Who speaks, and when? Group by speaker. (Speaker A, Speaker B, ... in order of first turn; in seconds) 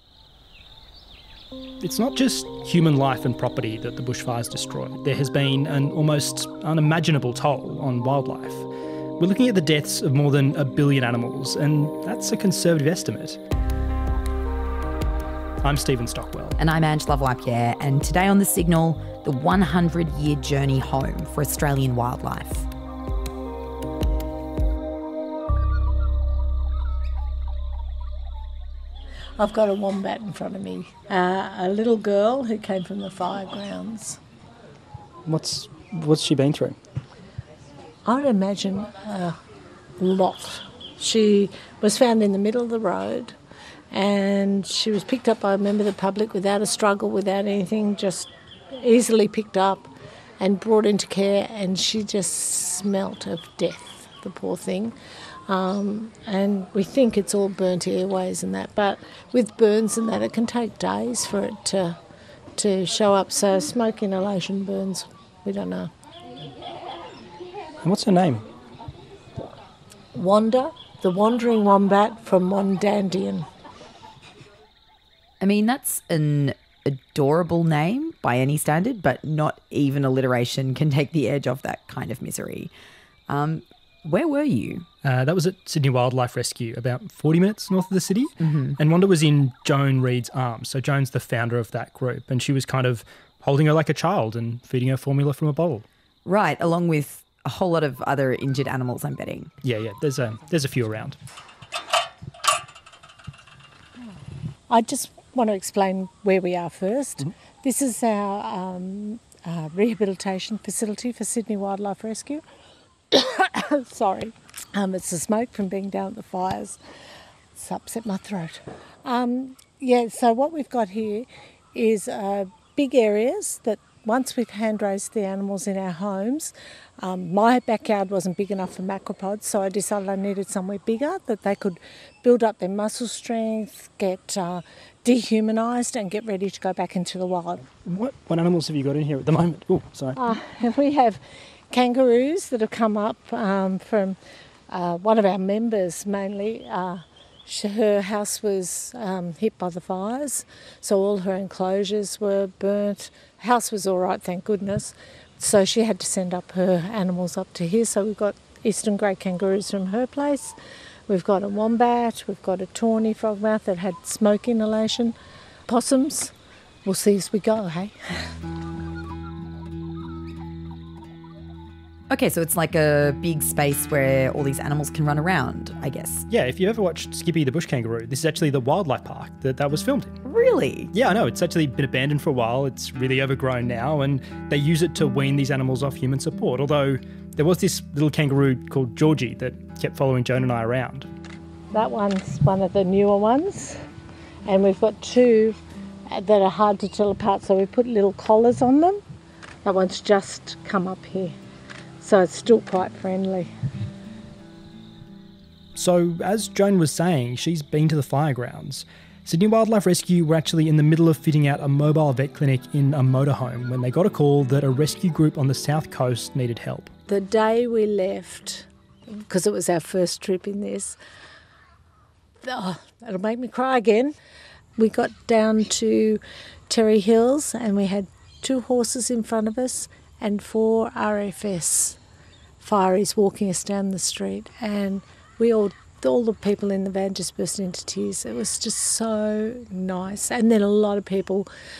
Speaker A: 1.8-8.7, 9.2-13.4, 15.6-16.6, 35.2-36.8, 67.8-68.4, 85.0-95.8, 99.6-101.2, 137.8-140.2, 176.3-180.2, 180.9-191.1, 205.7-216.9
Speaker B: 16.6-22.7, 75.4-82.7, 83.3-84.8, 88.4-88.8, 96.2-99.5, 172.1-176.2, 180.2-180.9
Speaker C: 29.4-34.2, 38.0-39.4, 40.0-43.3, 43.9-49.9, 50.4-54.9, 55.5-62.0, 62.6-65.9, 70.1-73.5, 104.7-112.4, 113.1-116.8, 117.5-137.7, 140.2-144.2, 144.7-160.6, 161.1-165.1, 165.7-166.3, 166.8-167.9, 191.7-193.8, 194.4-195.6, 196.1-199.0, 199.6-201.3, 202.0-203.5, 217.1-221.0, 222.4-224.1, 224.8-232.0, 232.6-241.5